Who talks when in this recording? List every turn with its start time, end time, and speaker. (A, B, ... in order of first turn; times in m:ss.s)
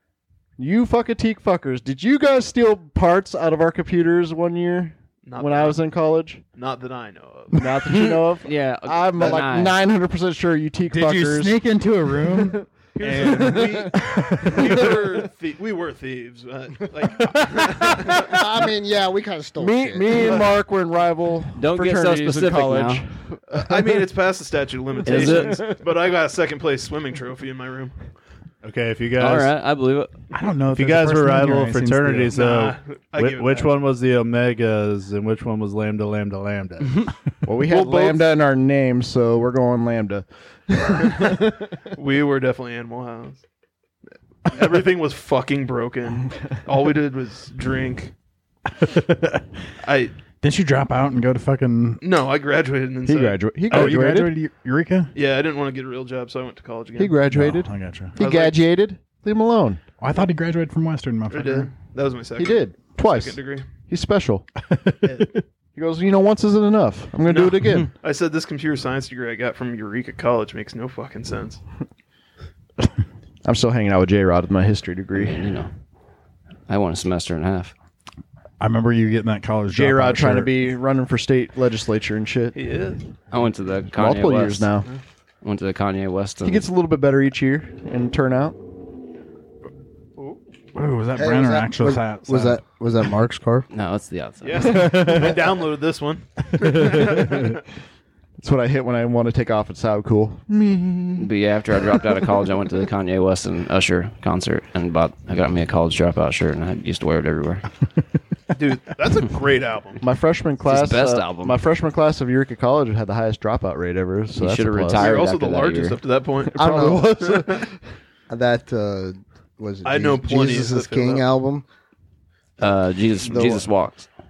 0:00.6-0:06.4 A
0:05.2-0:05.8 B
0:06.6-0:07.6 B
0:07.5-0:11.6 A
0:07.8-0:09.8 C
0:10.8-0:14.9 D
0:12.1-0:15.0 A
0:13.0-0:18.3 B
0:18.0-0:18.4 A
0:18.1-0:20.3 E
0:19.6-0:24.0 A
0:20.1-0:20.4 B
0:21.5-0:23.0 C
0:23.5-0:28.0 B
0:25.0-0:25.7 C
0:25.0-0:25.8 A
0:28.6-0:29.5 F
0:29.2-0:30.2 C
0:30.3-0:32.4 D
0:30.7-0:37.1 F
0:32.3-0:33.7 B
0:37.4-0:41.7 A
0:41.9-0:43.4 B
0:44.4-0:48.1 B
0:48.8-0:49.4 D
0:49.8-0:50.1 B
0:50.4-0:52.0 D
0:52.0-0:53.9 B
0:53.0-0:54.3 A
0:53.7-0:55.1 D
0:55.1-0:57.2 B
0:57.0-0:59.8 A
0:57.3-0:58.2 D
0:58.2-0:58.7 B
1:00.0-1:01.7 D
1:01.3-1:03.7 B
1:02.4-1:04.5 A
1:04.7-1:05.2 D
1:05.1-1:07.9 A
1:07.2-1:11.6 B
1:13.4-1:15.5 A
1:15.2-1:15.7 C
1:16.7-1:17.7 C
1:18.6-1:20.5 D
1:19.7-1:22.5 A
1:22.5-1:23.0 B
1:23.3-1:24.7 C
1:23.9-1:24.9 A
1:25.4-1:26.6 C
1:26.4-1:28.6 A
1:30.7-1:32.6 D
1:31.2-1:33.7 E
1:33.7-1:34.9 C
1:34.4-1:37.6 B
1:34.9-1:35.3 A
1:36.6-1:37.5 A
1:38.4-1:41.3 A
1:41.2-1:47.6 C
1:48.5-1:50.0 B
1:50.0-1:55.1 A
1:50.6-1:51.6 C
1:54.4-1:56.0 C
1:54.9-1:57.7 B
1:56.5-1:57.7 A
1:56.6-1:57.2 E
1:58.3-2:01.6 E
1:59.8-2:01.3 B
2:02.6-2:04.1 C
2:03.2-2:03.6 E